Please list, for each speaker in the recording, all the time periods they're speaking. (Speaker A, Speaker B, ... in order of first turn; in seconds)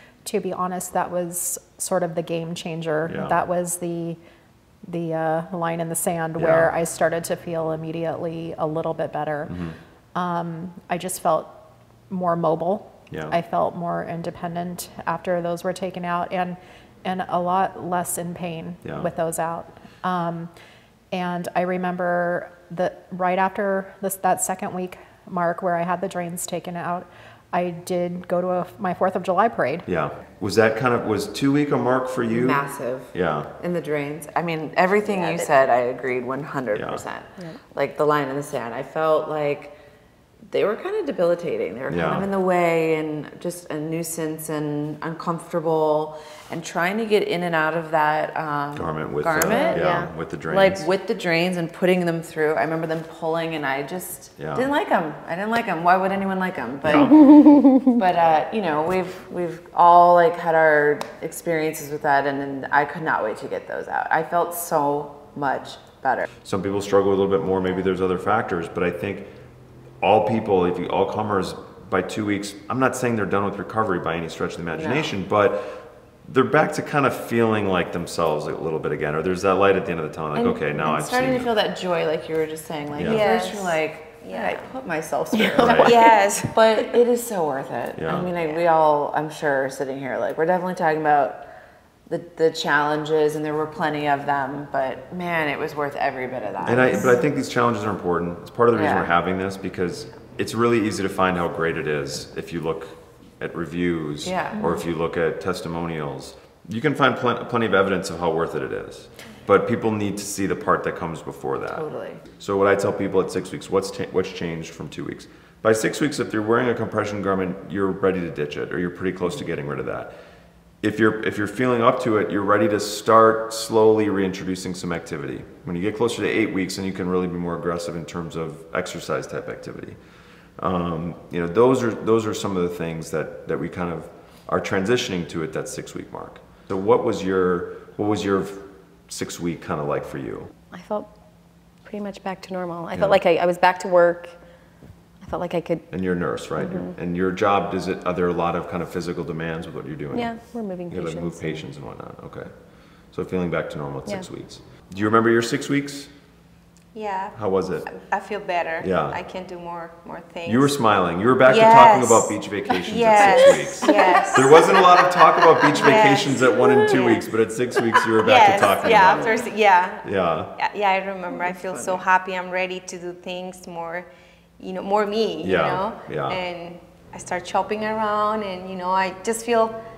Speaker A: 0.2-4.2, 4.8-9.6, 10.1-11.6, 12.1-20.5, 21.1-29.9
Speaker B: 3.1-3.4, 6.4-6.7, 9.5-9.8, 13.1-13.4, 18.8-19.1, 29.9-33.5, 36.7-37.0, 41.9-42.3, 48.7-50.9, 54.4-54.7, 56.8-57.1, 66.4-69.3, 70.0-81.5, 82.9-83.2, 85.6-85.9, 88.0-88.3, 96.6-111.8, 112.4-120.1, 120.8-130.0, 130.6-140.5, 142.9-143.2, 145.9-150.3, 150.9-152.5, 153.1-156.1, 157.3-157.9, 158.8-159.2, 160.4-169.5, 170.0-170.5, 175.4-176.4
Speaker C: 32.3-39.7, 40.5-49.9, 50.5-66.3, 74.7-75.1, 80.3-91.5, 92.1-97.2, 98.7-99.1, 104.2-104.8, 111.7-112.2, 163.8-164.5, 168.9-169.3, 171.3-172.0
Speaker D: 35.1-35.5, 83.0-84.7, 85.6-86.9, 156.9-160.8, 161.4-174.1, 174.6-179.8
Speaker E: 49.5-50.1, 57.2-57.9, 85.3-85.6, 140.7-141.1, 141.8-144.4, 145.2-145.9, 146.6-146.9, 150.1-151.7